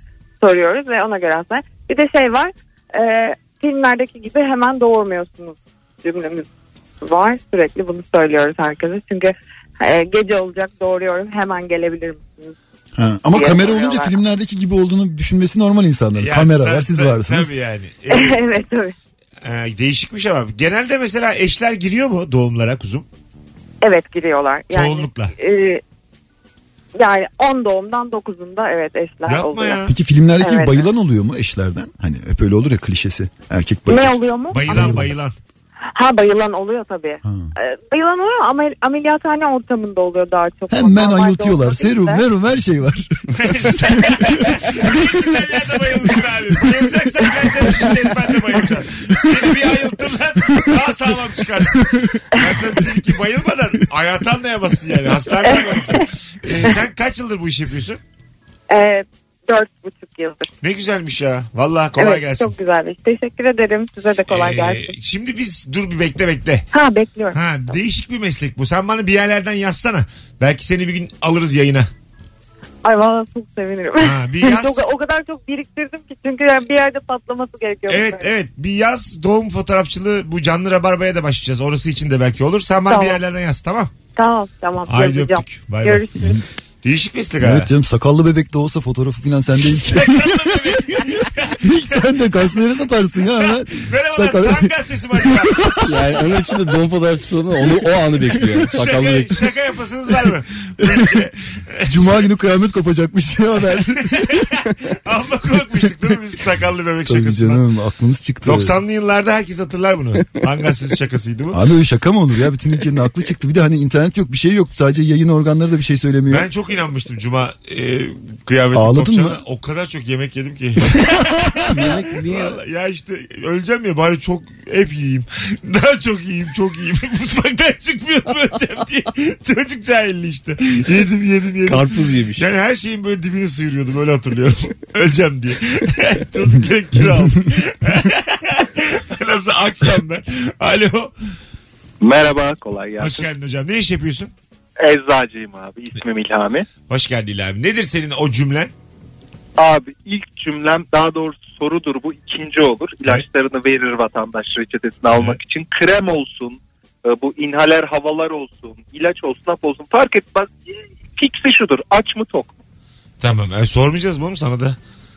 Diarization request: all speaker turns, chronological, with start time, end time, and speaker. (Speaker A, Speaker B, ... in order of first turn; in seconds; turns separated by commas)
Speaker A: 0.4-6.5, Speaker A: 7.0-12.6, Speaker B: 13.0-17.5, Speaker A: 13.3-14.1, Speaker C: 16.2-18.4, Speaker A: 18.1-18.9, Speaker C: 19.4-23.1, Speaker A: 23.8-25.8, Speaker C: 24.7-25.3, Speaker A: 27.0-29.9, Speaker C: 29.3-29.9, Speaker B: 29.9-35.1, Speaker A: 30.4-30.9, Speaker A: 33.9-35.0, Speaker C: 34.5-35.4, Speaker A: 35.9-42.2, Speaker B: 37.2-37.5, Speaker B: 40.7-45.0, Speaker C: 43.4-58.0, Speaker B: 51.8-52.9, Speaker A: 55.5-56.0, Speaker A: 58.7-60.5, Speaker C: 60.6-62.5, Speaker A: 62.0-64.9, Speaker C: 64.3-66.7, Speaker A: 66.7-67.4, Speaker C: 67.3-71.9, Speaker A: 72.8-78.3, Speaker C: 74.0-74.9, Speaker C: 77.9-83.9, Speaker A: 82.9-83.2, Speaker A: 84.2-86.4, Speaker C: 84.9-86.1, Speaker C: 86.8-87.7, Speaker B: 87.4-91.0, Speaker C: 89.7-92.0, Speaker B: 91.6-95.9, Speaker C: 93.4-96.4, Speaker D: 95.9-99.4, Speaker C: 98.7-102.2, Speaker B: 100.8-101.1, Speaker B: 101.9-104.5, Speaker C: 103.8-107.6, Speaker B: 107.1-108.7, Speaker C: 108.4-111.6, Speaker B: 111.5-116.5, Speaker C: 116.3-141.1, Speaker B: 118.7-119.4, Speaker D: 121.6-122.6, Speaker D: 131.7-132.4, Speaker E: 142.0-143.3, Speaker C: 143.0-144.3, Speaker E: 144.8-146.7, Speaker C: 146.9-148.7, Speaker E: 149.6-162.5, Speaker C: 155.1-155.4, Speaker C: 163.2-164.8